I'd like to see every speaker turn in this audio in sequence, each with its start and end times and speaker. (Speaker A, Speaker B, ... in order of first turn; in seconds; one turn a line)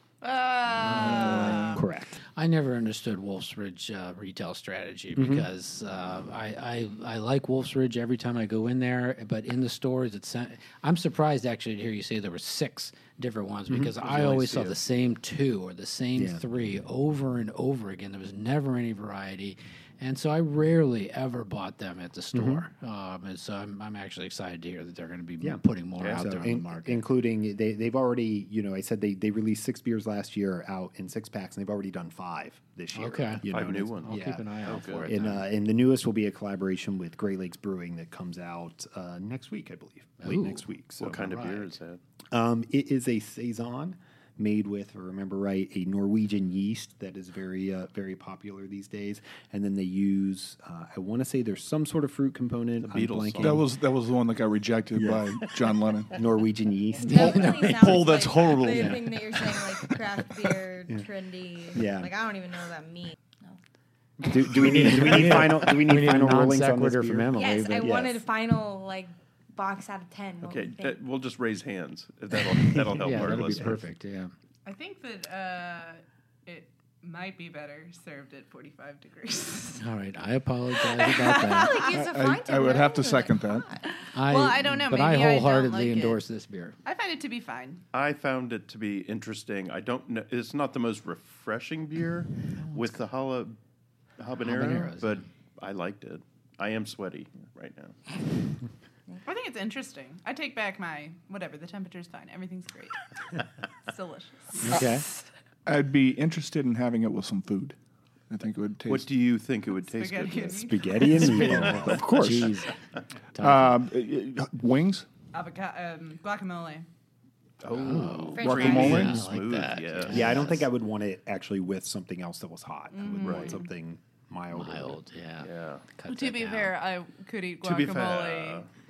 Speaker A: 0.2-1.8
Speaker B: 0.8-1.8
Speaker C: 0.9-2.2
Speaker B: 2.3-27.0
Speaker C: 5.2-5.5
Speaker C: 13.7-13.9
Speaker D: 14.0-14.8
Speaker C: 16.1-16.4
Speaker C: 22.3-22.6
Speaker C: 25.4-41.4
Speaker B: 32.9-33.4
Speaker D: 33.5-35.1
Speaker B: 34.0-35.4
Speaker B: 40.2-41.7
Speaker D: 41.0-42.0
Speaker C: 42.3-53.7
Speaker D: 52.8-53.6
Speaker E: 53.4-56.1
Speaker C: 54.9-55.4
Speaker C: 56.1-58.0
Speaker F: 57.0-63.6
Speaker B: 57.0-59.2
Speaker E: 57.1-59.0
Speaker C: 61.7-62.1
Speaker C: 64.2-68.2
Speaker B: 64.6-67.9
Speaker A: 67.3-67.9
Speaker F: 67.6-71.0
Speaker D: 70.4-73.8
Speaker B: 72.9-74.3
Speaker C: 73.1-73.7
Speaker A: 74.7-79.8
Speaker B: 79.8-81.7
Speaker A: 80.8-81.9
Speaker F: 81.5-83.8
Speaker E: 81.9-83.7
Speaker A: 83.9-86.2
Speaker B: 84.1-86.8
Speaker A: 86.8-87.8
Speaker D: 87.9-93.5
Speaker B: 92.6-92.8
Speaker D: 94.2-98.0
Speaker B: 94.4-95.2
Speaker A: 99.2-105.3
Speaker B: 104.6-105.0
Speaker E: 105.7-107.8
Speaker E: 108.3-109.1
Speaker D: 108.9-112.3
Speaker A: 109.8-111.4
Speaker C: 110.5-112.5
Speaker B: 111.1-112.7
Speaker B: 113.3-113.8
Speaker E: 113.4-115.1
Speaker A: 115.3-116.9
Speaker D: 117.6-120.5
Speaker B: 117.7-120.7
Speaker E: 118.3-119.3
Speaker F: 118.3-119.1
Speaker C: 120.1-125.0
Speaker A: 122.9-123.7
Speaker D: 123.1-123.6
Speaker B: 124.5-126.7
Speaker D: 125.4-125.9
Speaker A: 126.1-128.7
Speaker D: 127.6-128.7